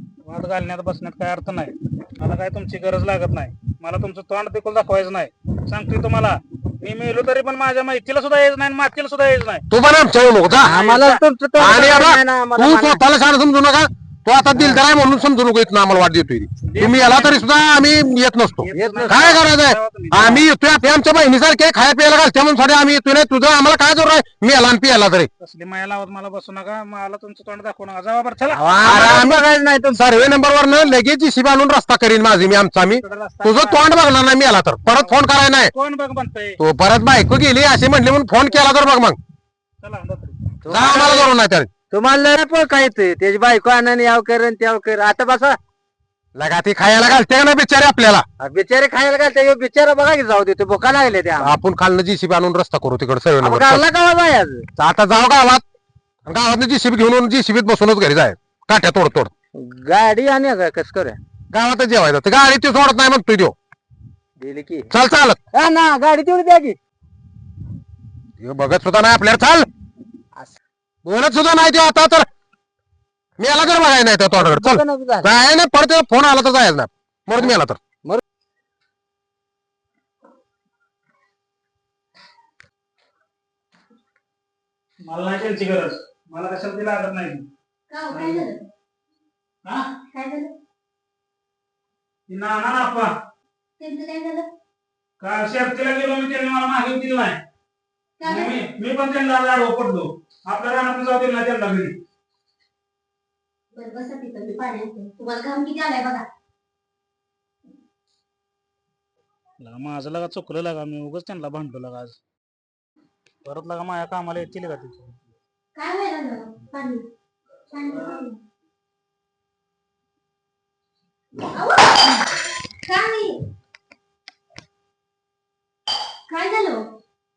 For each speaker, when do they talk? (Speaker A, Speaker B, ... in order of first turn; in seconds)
Speaker A: 0.2-9.7, 10.6-11.2, 16.7-17.4, 18.6-20.4, 25.4-28.9, 33.0-33.8, 34.9-35.2, 35.7-36.6, 39.8-40.4, 85.1-87.5, 88.1-88.4, 92.3-93.1, 95.2-97.4, 98.3-102.0, 109.6-112.2, 113.5-115.2
Speaker B: 9.7-10.7, 11.6-25.3, 28.8-35.7, 36.6-39.2, 40.7-41.7, 46.4-48.3, 51.4-53.8, 54.8-55.6, 56.3-59.3, 61.5-63.5, 64.9-65.4, 68.4-69.7, 71.0-72.3, 73.4-77.8
Speaker C: 10.5-13.0, 14.5-14.8, 18.7-19.3, 28.5-30.1, 40.6-41.3, 41.9-45.6, 48.4-51.6, 53.4-54.7, 59.6-61.2, 64.4-64.9, 65.5-66.8, 74.3-75.3, 77.4-78.2
Speaker D: 87.9-88.7, 90.1-90.5, 93.8-94.5, 98.2-98.6, 103.7-106.2, 115.8-117.0, 117.7-118.4, 121.5-122.2, 122.9-123.4, 126.3-126.8